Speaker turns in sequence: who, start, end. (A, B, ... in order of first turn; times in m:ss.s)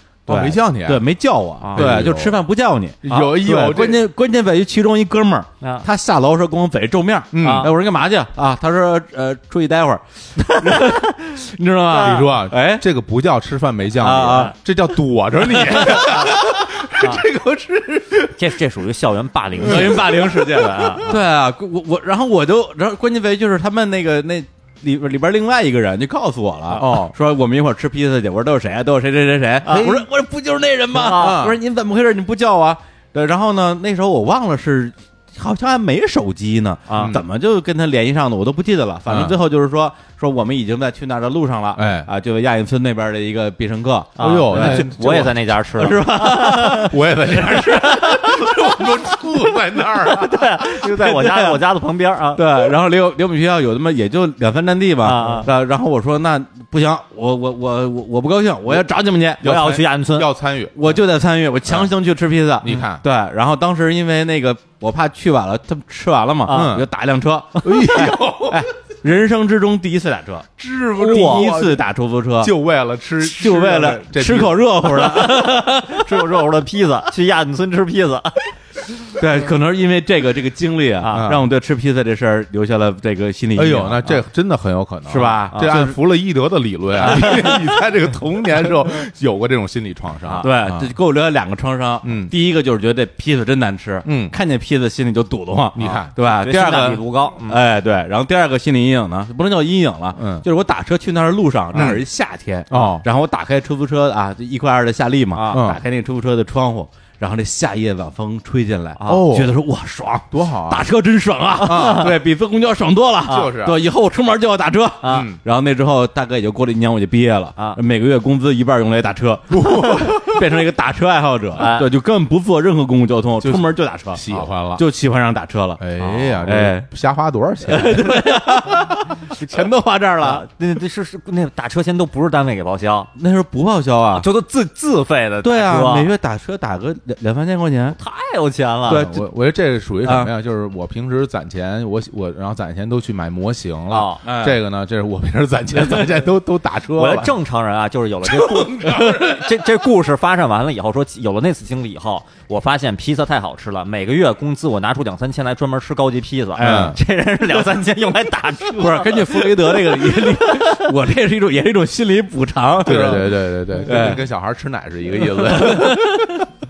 0:00.3-0:01.0 A
0:00.3-0:12.8 B
0:01.6-0:02.1 C
0:01.7-0:02.4 A
0:03.0-0:04.0 A
0:05.6-0:05.8 C
0:07.3-0:07.7 A
0:07.4-0:07.7 C
0:10.6-0:11.0 C
0:11.9-0:12.3 C
0:12.0-0:18.3 A
0:14.0-0:14.5 B
0:14.3-0:14.5 C
0:15.7-0:16.1 B
0:18.3-0:21.2 C
0:19.6-0:21.0 A
0:19.6-0:44.9 B
0:26.7-0:27.1 A
0:29.6-0:30.0 C
0:29.6-0:30.0 A
0:30.9-0:31.4 C
0:31.0-0:31.6 A
0:36.9-0:37.2 C
0:37.0-0:37.2 A
0:39.1-0:39.4 A
0:41.7-0:42.1 A
0:44.2-0:46.9 C
0:44.2-0:45.5 A
0:45.8-0:48.2 B
0:46.3-0:50.7 A
0:47.5-0:47.8 C
0:49.8-0:52.6 C
0:50.7-0:51.6 B
0:52.3-0:59.4 B
0:55.0-0:55.5 C
0:55.2-0:55.4 A
0:59.4-1:01.0 A
0:59.4-1:00.3 C
1:00.7-1:12.5 B
1:02.6-1:03.0 A
1:06.5-1:06.8 C
1:06.5-1:06.9 A
1:07.6-1:08.7 A
1:10.6-1:11.9 A
1:11.1-1:11.4 C
1:12.4-1:14.7 A
1:13.2-1:16.1 B
1:14.9-1:18.5 C
1:19.1-1:24.2 B
1:21.0-1:21.3 C
1:21.1-1:21.4 A
1:23.6-1:30.9 A
1:25.1-1:26.0 B
1:27.0-1:27.7 B
1:30.4-2:06.9 B
1:32.0-1:32.3 A
1:34.0-1:34.3 A
1:35.7-1:36.2 A
1:36.3-1:37.6 C
1:40.1-1:40.4 A
1:41.7-1:42.0 A
1:42.7-1:43.0 A
1:45.3-1:45.6 C
1:45.5-1:45.8 A
1:49.0-1:49.2 C
1:49.0-1:49.6 A
1:50.3-1:50.8 A
1:51.6-1:52.2 A
1:51.6-1:52.1 C
1:53.3-1:53.8 A
1:53.3-1:53.5 C
1:55.0-1:55.3 C
1:55.1-1:55.4 A
1:59.5-2:00.4 A
2:01.6-2:01.9 C
2:03.4-2:04.8 A
2:05.8-2:08.2 A
2:07.6-2:10.4 B
2:09.4-2:09.7 C
2:10.2-2:13.1 C
2:13.1-2:14.3 B
2:14.1-2:16.1 C
2:15.4-2:18.0 B
2:18.0-2:19.2 C
2:18.9-2:27.3 A
2:20.0-2:20.3 B
2:23.9-2:24.2 C
2:24.2-2:24.6 B
2:26.9-2:40.9 C
2:28.2-2:29.8 A
2:36.6-2:37.0 B
2:36.6-2:37.0 A
2:38.7-2:44.2 B
2:42.8-2:46.4 A
2:45.3-2:46.5 B